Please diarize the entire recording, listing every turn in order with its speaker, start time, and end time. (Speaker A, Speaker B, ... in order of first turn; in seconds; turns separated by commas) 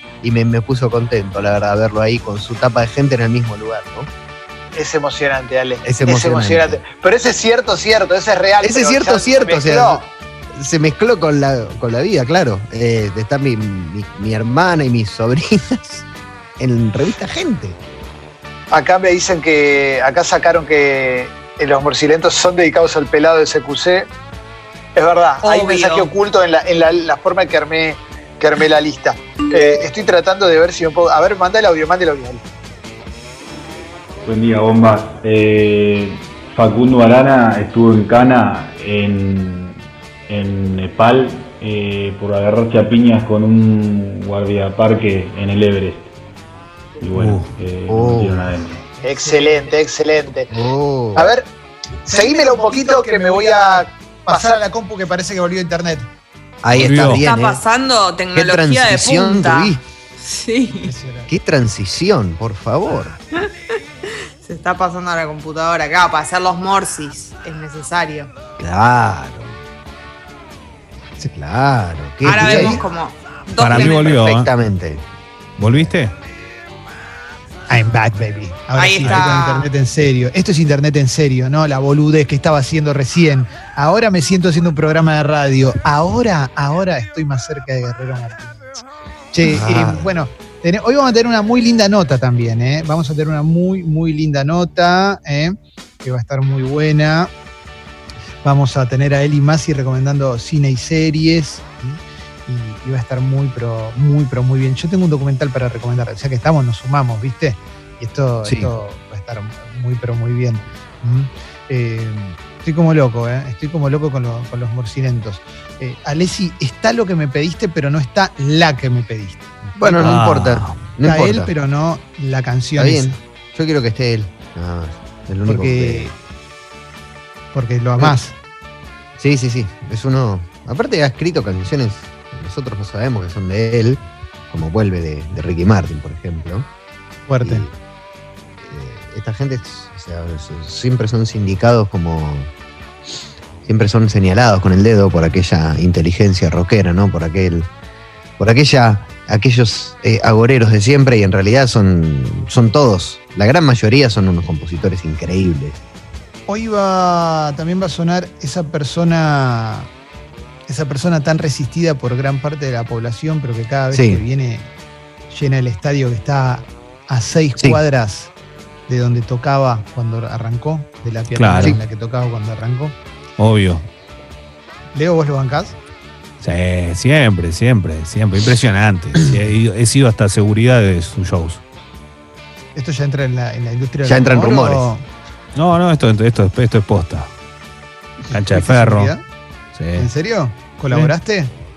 Speaker A: 0.2-4.1, Speaker B: 4.7-10.0, Speaker A: 5.8-6.8, Speaker A: 8.6-16.0, Speaker A: 16.6-17.8, Speaker B: 18.7-24.1, Speaker B: 24.9-32.4, Speaker C: 25.4-26.1, Speaker D: 34.2-39.8, Speaker D: 40.3-46.1, Speaker D: 47.0-48.8, Speaker E: 47.1-47.5, Speaker A: 47.9-48.5, Speaker F: 49.0-49.7, Speaker B: 49.0-50.5, Speaker A: 50.5-51.3, Speaker B: 51.1-51.5, Speaker F: 52.1-56.1, Speaker B: 52.1-54.6, Speaker A: 56.6-57.6, Speaker E: 56.7-57.2, Speaker C: 57.1-60.9, Speaker A: 58.3-59.8, Speaker F: 60.7-61.3, Speaker A: 61.3-63.2, Speaker C: 64.4-68.3, Speaker A: 68.6-69.6, Speaker A: 71.2-72.8, Speaker C: 72.2-74.2, Speaker F: 72.4-72.8, Speaker E: 73.6-74.5, Speaker A: 73.6-75.0, Speaker E: 75.6-76.1, Speaker A: 75.6-75.9, Speaker F: 77.7-97.3, Speaker C: 78.8-79.7, Speaker E: 79.0-79.3, Speaker A: 89.4-90.1, Speaker F: 98.4-120.2, Speaker A: 108.4-108.7, Speaker A: 119.8-121.5, Speaker E: 120.0-120.8, Speaker F: 121.0-123.2, Speaker A: 122.8-126.1, Speaker F: 125.5-126.1, Speaker F: 127.5-128.3, Speaker A: 129.2-136.7, Speaker F: 137.3-137.7, Speaker A: 137.4-137.7, Speaker A: 138.6-142.5, Speaker A: 143.6-147.7, Speaker A: 148.4-155.8, Speaker F: 156.5-159.9, Speaker F: 160.7-164.7, Speaker A: 163.9-164.2, Speaker F: 165.3-168.3, Speaker F: 168.9-172.9, Speaker E: 171.3-171.8, Speaker E: 173.4-173.9, Speaker F: 174.9-175.8, Speaker E: 176.4-181.6, Speaker F: 182.7-185.0, Speaker A: 184.0-184.9, Speaker E: 185.6-187.3, Speaker F: 188.2-189.2, Speaker E: 188.3-189.1, Speaker E: 189.8-190.1, Speaker F: 189.9-191.5